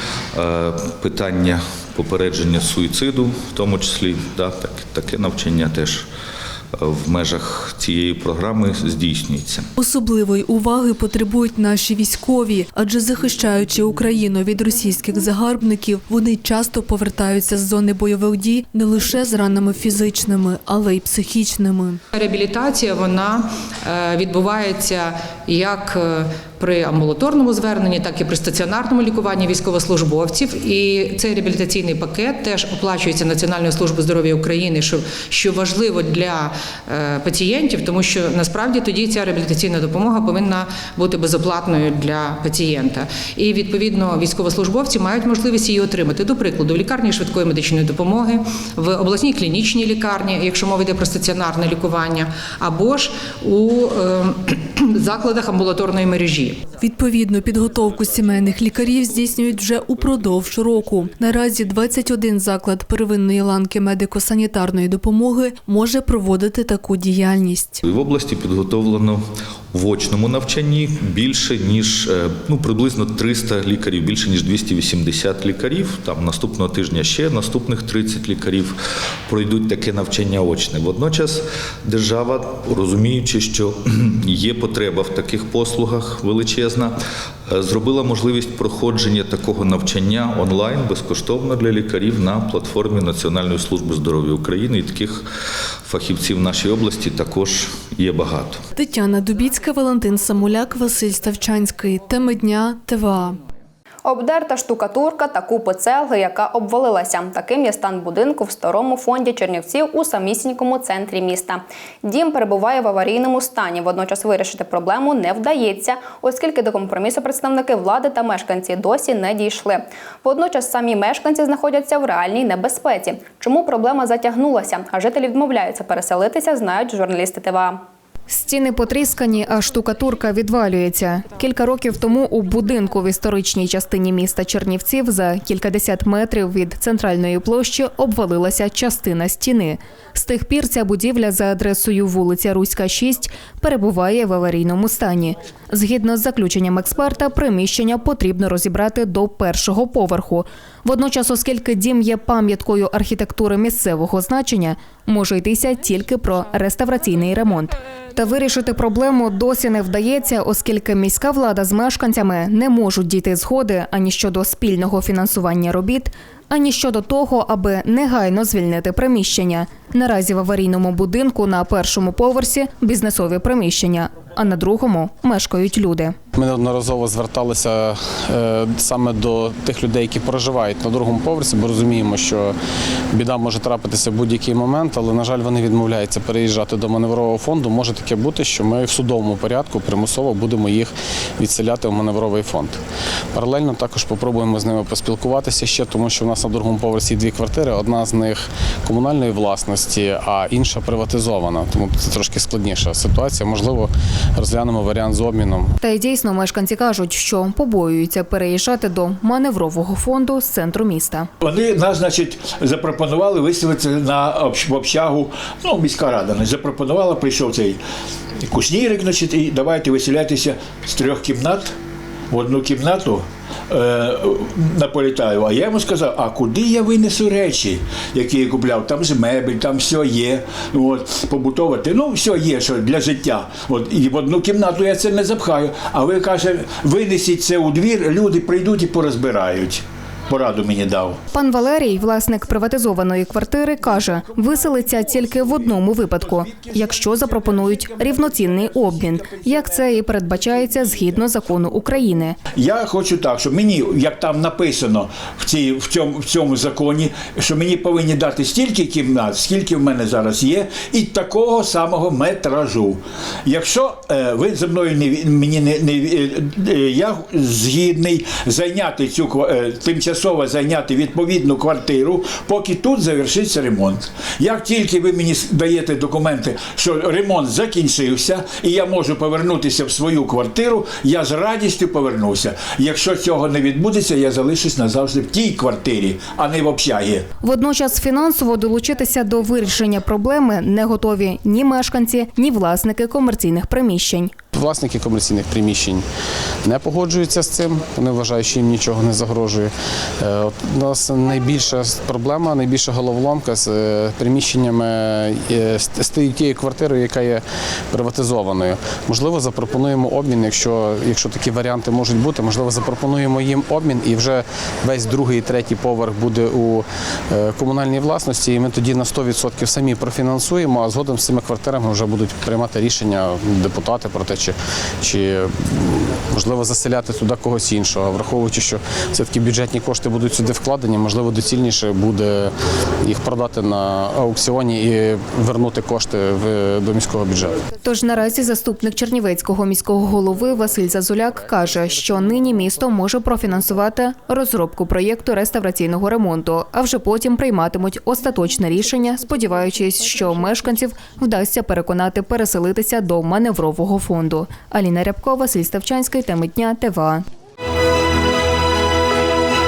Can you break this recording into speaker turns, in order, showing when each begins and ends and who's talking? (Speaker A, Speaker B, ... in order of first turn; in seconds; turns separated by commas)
Speaker A: 0.3-6.1, Speaker A: 6.8-9.7, Speaker B: 9.8-22.0, Speaker C: 22.1-56.7, Speaker B: 56.8-67.8, Speaker A: 67.8-78.8, Speaker A: 79.3-87.0, Speaker A: 87.5-95.3, Speaker A: 95.8-98.6, Speaker B: 98.8-103.4, Speaker D: 104.0-127.8, Speaker E: 128.3-176.2, Speaker F: 176.3-182.5, Speaker F: 183.1-192.8, Speaker F: 193.3-205.7, Speaker E: 205.8-211.3, Speaker G: 211.4-217.8, Speaker G: 218.4-221.8, Speaker G: 222.3-241.2, Speaker E: 241.3-252.4, Speaker G: 244.6-252.0, Speaker G: 252.5-287.2, Speaker E: 287.4-294.3, Speaker F: 294.5-296.0, Speaker F: 296.6-332.5, Speaker F: 333.0-337.6, Speaker E: 337.8-357.2